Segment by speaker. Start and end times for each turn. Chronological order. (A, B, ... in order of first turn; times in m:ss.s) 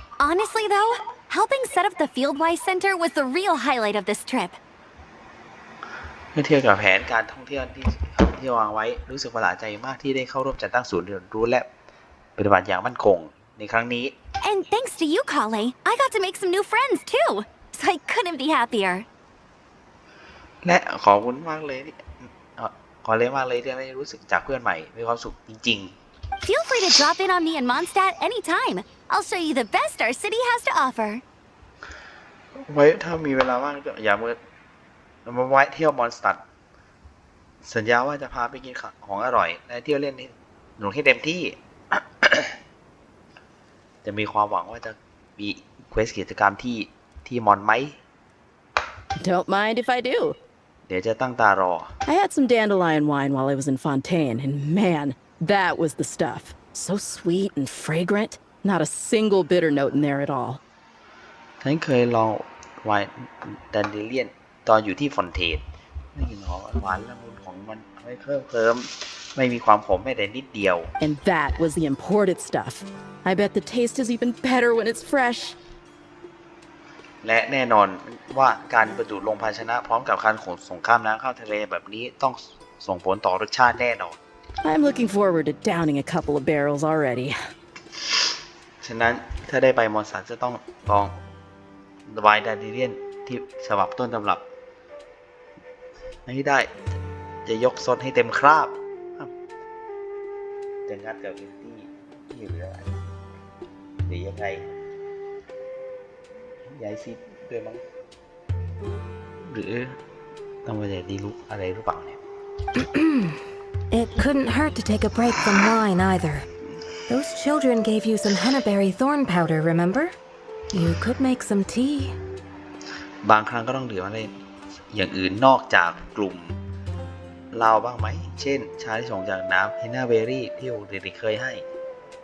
0:00.2-0:04.6 A
0:06.3-0:11.7 B
0:12.4-0:14.1 B
0:14.4-0:19.0 A
0:20.6-0:26.0 B
0:26.4-0:31.2 A
0:32.6-0:34.4 B
0:35.2-0:36.4 B
0:37.6-0:42.6 B
0:44.0-0:48.0 B
0:49.2-0:50.4 C
0:50.9-0:51.9 B
0:52.0-1:00.6 C
1:01.6-1:05.6 B
1:06.1-1:10.9 B
1:11.0-1:15.6 C
1:17.2-1:24.2 B
1:24.6-1:27.4 C
1:28.8-1:31.2 B
1:32.1-1:34.4 B
1:36.2-1:36.7 B
1:37.4-1:39.3 B
1:40.9-1:43.0 B
1:44.0-1:44.6 B
1:46.7-1:47.8 B
1:49.4-1:50.0 B
1:50.6-1:52.2 B
1:52.8-1:53.3 D
1:53.9-1:56.4 D
1:57.1-2:00.2 D
2:00.7-2:02.1 D
2:03.2-2:04.3 B
2:04.9-2:06.6 B
2:07.5-2:11.6 B